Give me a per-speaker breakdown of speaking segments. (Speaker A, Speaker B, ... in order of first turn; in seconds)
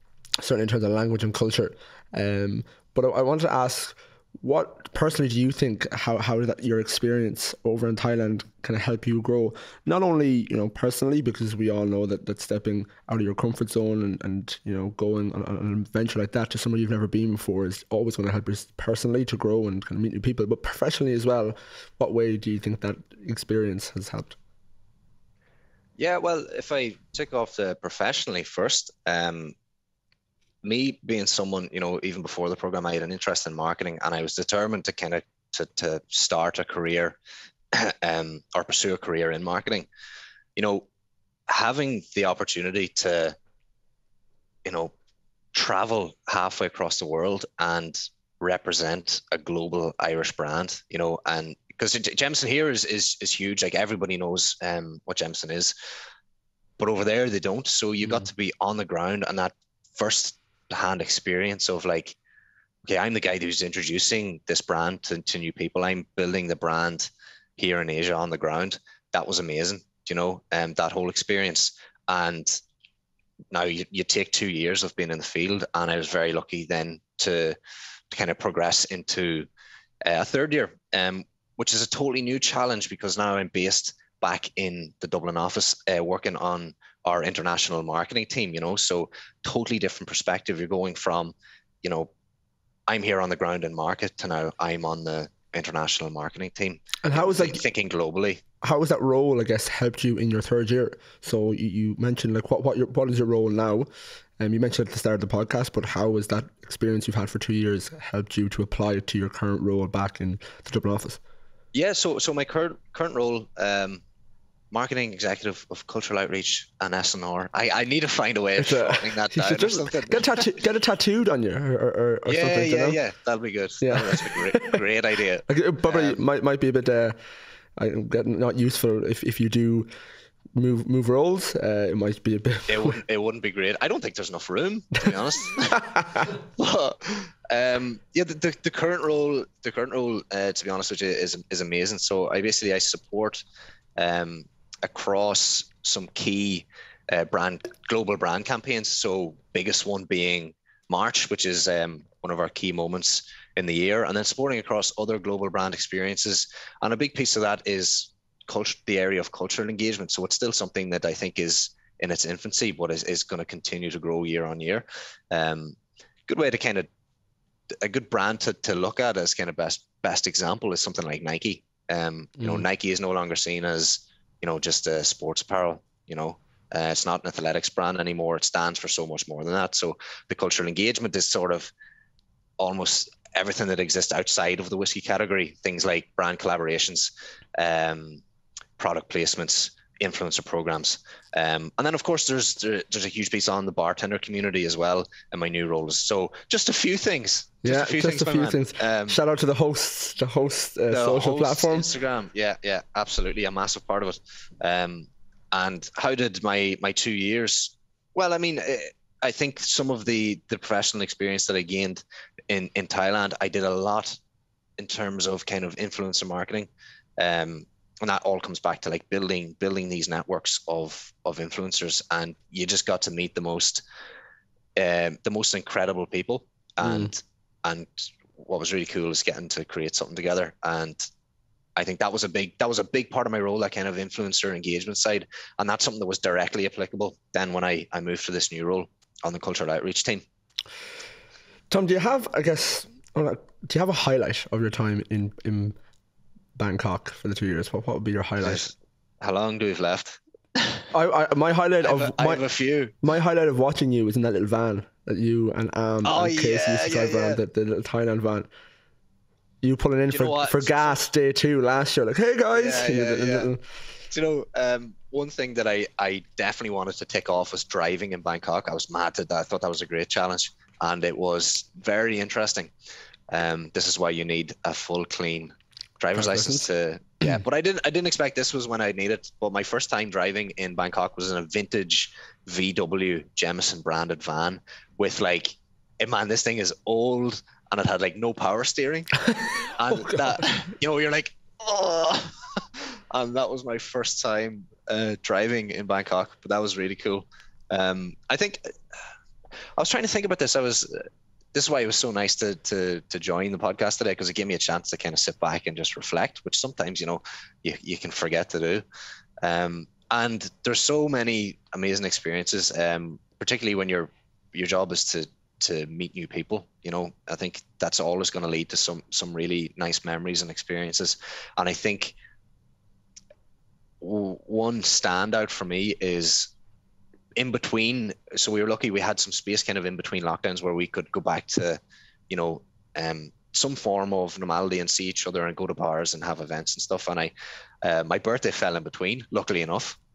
Speaker A: 0.4-24.4, 97.0-97.6, 98.6-103.9, 104.4-111.2, 118.6-123.0, 123.8-124.8, 125.5-127.2, 127.8-129.9, 130.6-133.0, 135.9-136.2, 197.6-201.9, 226.8-227.1, 241.7-245.8, 246.6-248.7, 250.9-252.4, 253.0-258.5, 259.6-263.6, 276.2-276.7, 289.9-290.4
Speaker B: 26.0-29.6, 30.6-37.2, 37.7-39.9, 40.6-40.9, 41.5-43.4, 44.6-44.9, 45.5-55.7, 56.8-62.2, 62.9-72.6, 73.5-77.6, 78.1-79.5, 80.0-92.1, 92.9-98.4, 111.7-114.0, 114.7-120.2, 122.3-126.2, 132.7-143.4, 144.0-166.9, 167.7-181.7, 182.6-188.2, 188.8-199.2, 200.9-214.2, 214.8-223.8, 224.8-231.1, 231.8-240.2, 248.4-250.8, 251.8-252.9, 256.0-257.4, 260.1-261.0, 262.5-263.5, 264.1-272.7, 273.3-298.6, 299.8-308.8, 309.4-322.1, 324.0-326.5, 327.4-337.3, 337.8-340.0